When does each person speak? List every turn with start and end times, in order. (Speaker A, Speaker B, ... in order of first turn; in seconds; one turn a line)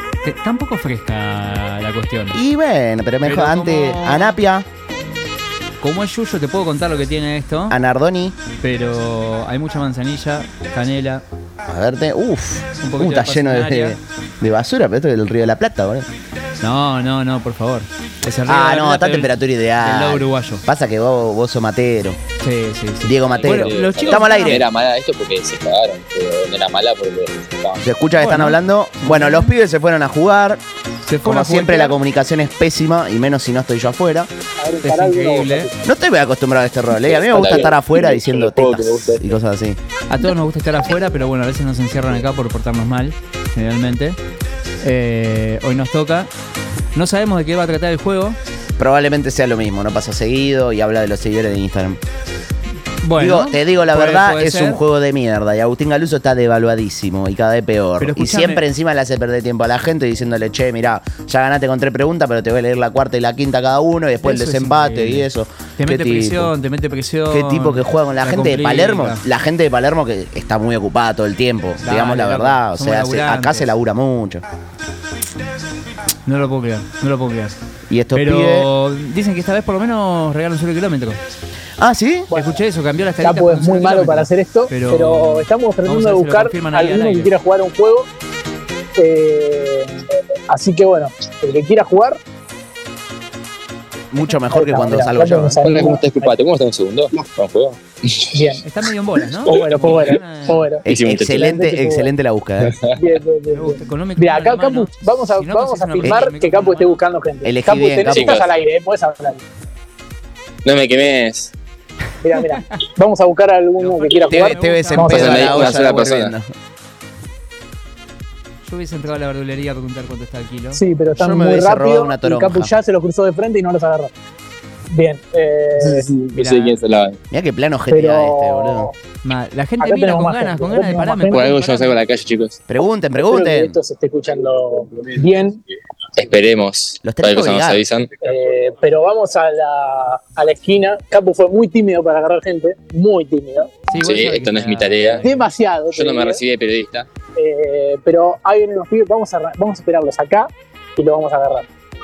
Speaker A: 0.2-2.4
Speaker B: 2.3-4.7
Speaker A: 3.2-4.3
Speaker A: 5.8-7.8
Speaker B: 7.7-8.4
Speaker A: 8.6-11.2
Speaker B: 11.7-16.1
Speaker A: 12.8-14.0
Speaker A: 16.6-20.6
Speaker B: 18.5-22.2
Speaker A: 22.4-24.6
Speaker B: 23.0-24.7
Speaker C: 23.4-27.9
Speaker B: 27.8-30.6
Speaker A: 28.2-29.5
Speaker A: 31.0-32.0
Speaker B: 31.2-34.3
Speaker D: 34.6-35.8
Speaker A: 34.8-35.7
Speaker B: 35.9-39.8
Speaker C: 37.1-39.4
Speaker A: 40.1-44.2
Speaker A: 44.8-46.3
Speaker A: 47.0-48.4
Speaker B: 48.8-52.0
Speaker A: 53.0-54.8
Speaker B: 53.2-66.5
Speaker A: 58.0-58.6
Speaker A: 64.2-69.2
Speaker B: 67.3-74.4
Speaker A: 71.8-73.7
Speaker A: 76.2-77.6
Speaker B: 77.9-78.7
Speaker A: 78.1-81.2
Speaker B: 81.8-82.3
Speaker D: 82.3-82.6
Speaker A: 82.3-87.3
Speaker D: 83.2-88.1
Speaker D: 89.0-90.0
Speaker D: 90.5-92.2
Speaker B: 94.1-95.6
Speaker D: 94.5-96.3
Speaker C: 95.6-98.3
Speaker D: 98.3-98.6
Speaker A: 98.6-100.7
Speaker D: 99.4-102.1
Speaker C: 99.5-100.1
Speaker B: 100.8-102.8
Speaker C: 100.9-101.5
Speaker C: 102.6-102.9
Speaker D: 102.9-109.4
Speaker A: 103.5-107.0
Speaker B: 106.0-106.3
Speaker B: 107.4-108.3
Speaker C: 108.1-108.5
Speaker C: 110.7-111.5
Speaker D: 112.2-115.7
Speaker A: 113.8-115.9
Speaker B: 114.3-116.5
Speaker C: 115.0-116.3
Speaker A: 118.7-120.8
Speaker D: 120.7-124.1
Speaker B: 121.2-122.7
Speaker D: 124.9-126.1
Speaker C: 126.1-127.2
Speaker A: 126.3-126.8
Speaker B: 127.3-128.9
Speaker D: 127.9-128.9
Speaker A: 129.2-132.0
Speaker D: 129.8-131.5
Speaker C: 131.3-132.6
Speaker B: 132.7-133.8
Speaker D: 133.2-135.6
Speaker C: 136.2-138.1
Speaker B: 137.0-137.8
Speaker D: 138.2-143.8
Speaker A: 143.9-145.5
Speaker C: 144.0-145.2
Speaker D: 145.2-146.4
Speaker C: 145.9-147.1
Speaker D: 147.3-151.7